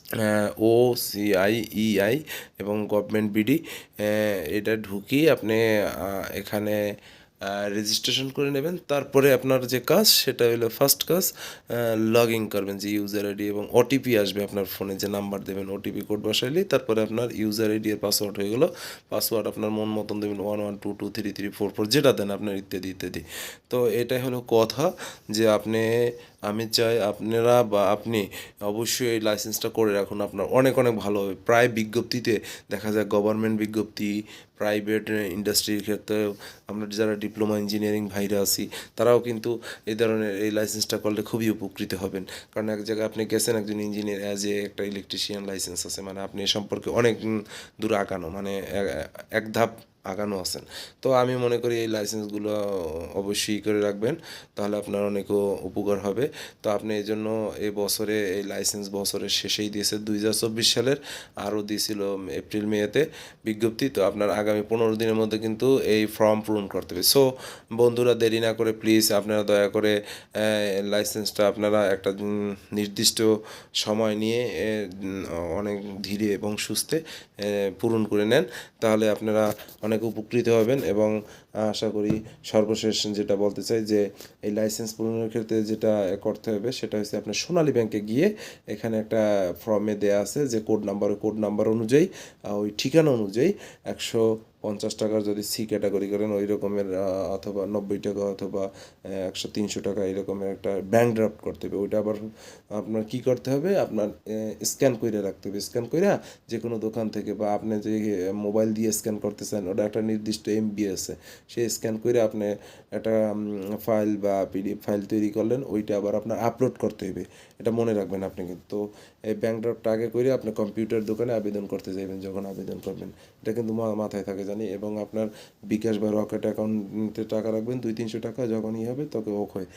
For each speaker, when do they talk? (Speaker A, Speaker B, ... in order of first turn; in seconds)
Speaker A: 0.2-6.8, 7.5-25.9, 26.5-47.2, 47.8-52.6, 53.1-67.2, 67.8-72.2, 72.7-73.3, 73.8-74.9, 75.5-81.1, 81.7-102.2, 102.8-129.7